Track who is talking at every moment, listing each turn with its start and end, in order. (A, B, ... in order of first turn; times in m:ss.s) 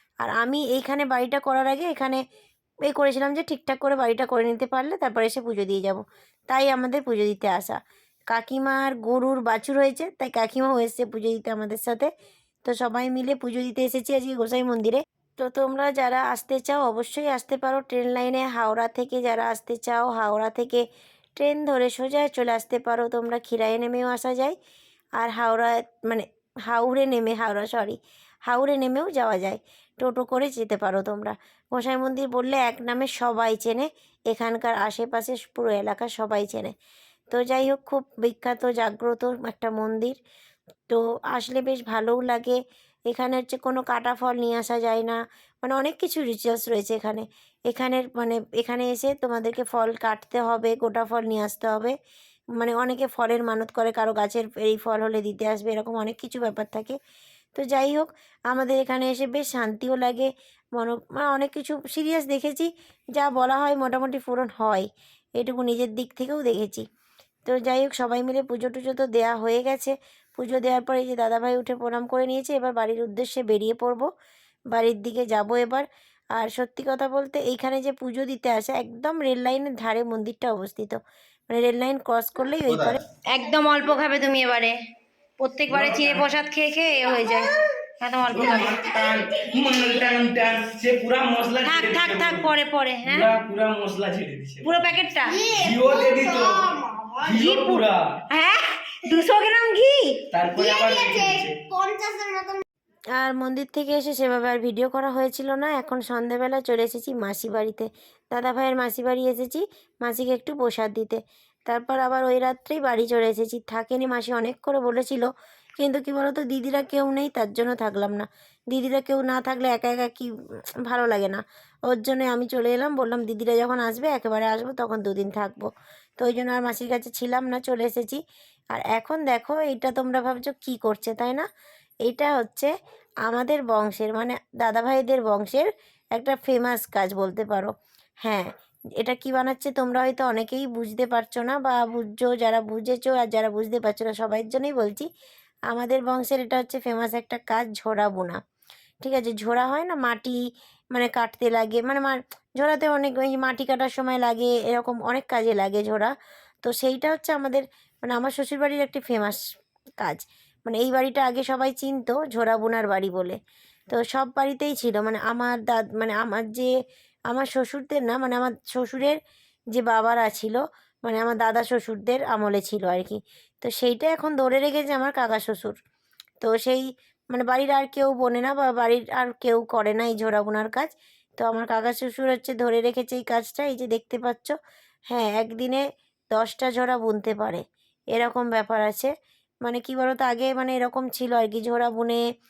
0:00.2-0:02.2 A
0:02.9-0:07.8 A
0:08.3-0:12.1 A
0:12.6-0:20.8 A
0:21.4-0:24.6 A
0:25.2-0:36.7 A
0:37.3-0:40.2 A
0:40.9-0:42.6 A
0:43.1-0:51.9 A
0:52.6-0:57.0 A
0:57.5-1:04.9 A
1:05.4-1:06.8 A
1:07.4-1:14.1 A
1:14.7-1:15.8 A
1:16.4-1:21.0 A
1:21.5-1:24.7 A
1:25.4-1:28.8 A
1:25.7-1:26.3 B
1:27.1-1:27.5 C
1:28.3-1:32.5 B
1:31.6-1:33.3 A
1:33.0-1:34.9 B
1:34.6-1:35.4 A
1:35.2-1:37.7 C
1:35.5-1:36.7 B
1:37.2-1:38.1 B
1:38.3-1:40.1 A
1:40.3-1:41.6 B
1:40.5-1:42.6 C
1:43.2-1:55.3 A
1:55.8-2:00.3 A
2:00.9-2:08.2 A
2:08.7-2:11.5 A
2:12.0-2:12.7 A
2:13.2-2:17.7 A
2:19.0-2:25.1 A
2:25.7-2:28.4 A
2:29.0-2:30.4 A
2:30.9-2:36.1 A
2:36.6-2:39.4 A
2:40.0-2:43.4 A
2:43.9-2:46.7 A
2:47.3-2:49.2 A
2:49.7-2:55.8 A
2:56.4-3:04.5 A
3:05.1-3:07.6 A
3:08.1-3:09.1 A
3:09.6-3:12.2 A